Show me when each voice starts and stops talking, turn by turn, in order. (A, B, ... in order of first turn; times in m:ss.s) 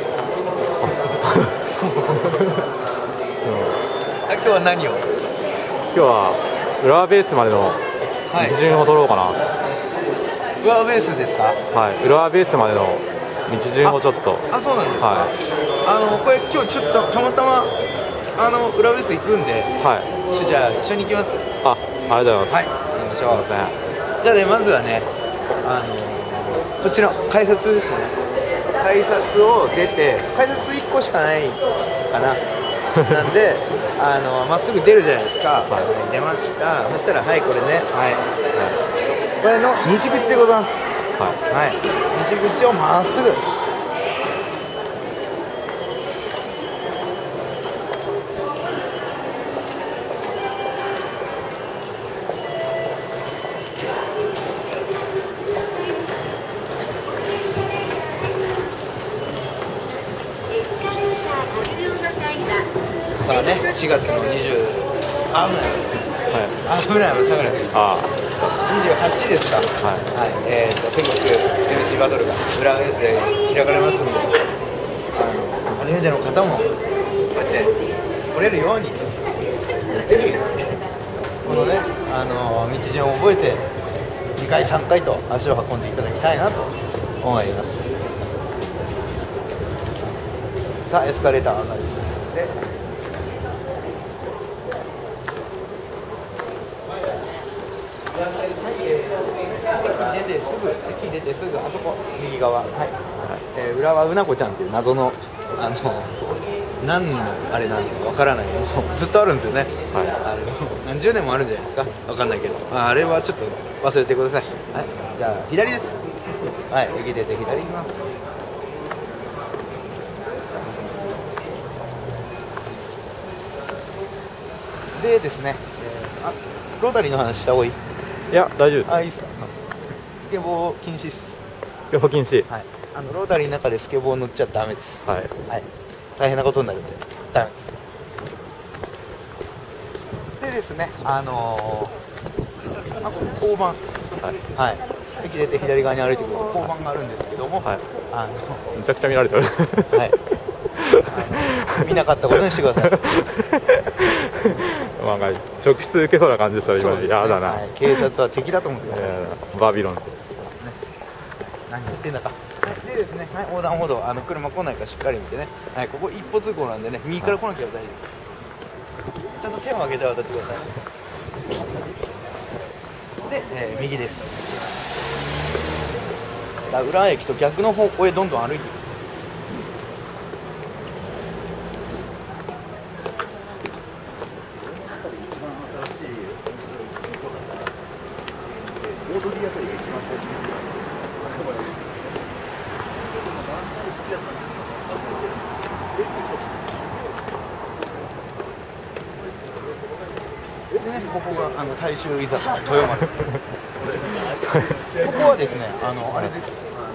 0:00.8-0:02.6 A
0:01.8-0:02.4 B
0:03.4-0:03.8 A
0:04.2-0:05.0 B
0:05.9-0:07.8 A
0:08.3-0:08.6 B
0:08.3-0:09.4 A
0:10.6-0:11.6 B
0:11.7-0:14.4 A
0:13.8-0:17.7 B
0:15.0-0:15.3 A
0:18.4-0:21.5 B
0:19.8-0:20.1 A
0:21.6-0:22.7 A
0:22.5-0:23.5 B
0:23.3-0:23.8 A
0:24.2-0:25.1 B
0:25.6-0:28.2 B
0:28.8-0:32.4 B
0:32.9-0:38.3 B
0:39.4-0:40.9 B
0:41.5-0:43.4 B
1:03.1-1:06.0 B
1:06.3-1:06.6 A
1:06.6-1:07.8 B
1:07.7-1:08.2 A
1:08.6-1:14.3 B
1:09.8-1:10.1 A
1:15.1-1:16.7 B
1:17.3-1:17.7 B
1:18.3-1:20.8 B
1:21.4-1:23.7 B
1:24.4-1:27.9 B
1:30.9-1:32.6 B
1:38.4-1:46.2 B
1:46.8-1:56.0 B
1:56.7-1:58.1 B
2:04.9-2:07.8 B
2:08.3-2:09.0 A
2:08.8-2:09.5 B
2:10.1-2:11.4 B
2:11.9-2:12.5 A
2:12.5-2:17.7 B
2:20.4-2:21.9 B
2:22.9-2:28.7 B
2:28.7-2:30.1 A
2:29.9-2:30.2 B
2:30.8-2:38.0 A
2:31.0-2:33.1 B
2:36.7-2:39.2 B
2:38.9-2:40.2 A
2:40.4-2:40.8 B
2:41.4-2:48.2 B
2:49.4-2:50.7 B
2:53.2-2:54.6 B
2:56.7-2:58.8 B
3:20.7-3:23.1 B
3:25.0-3:26.7 B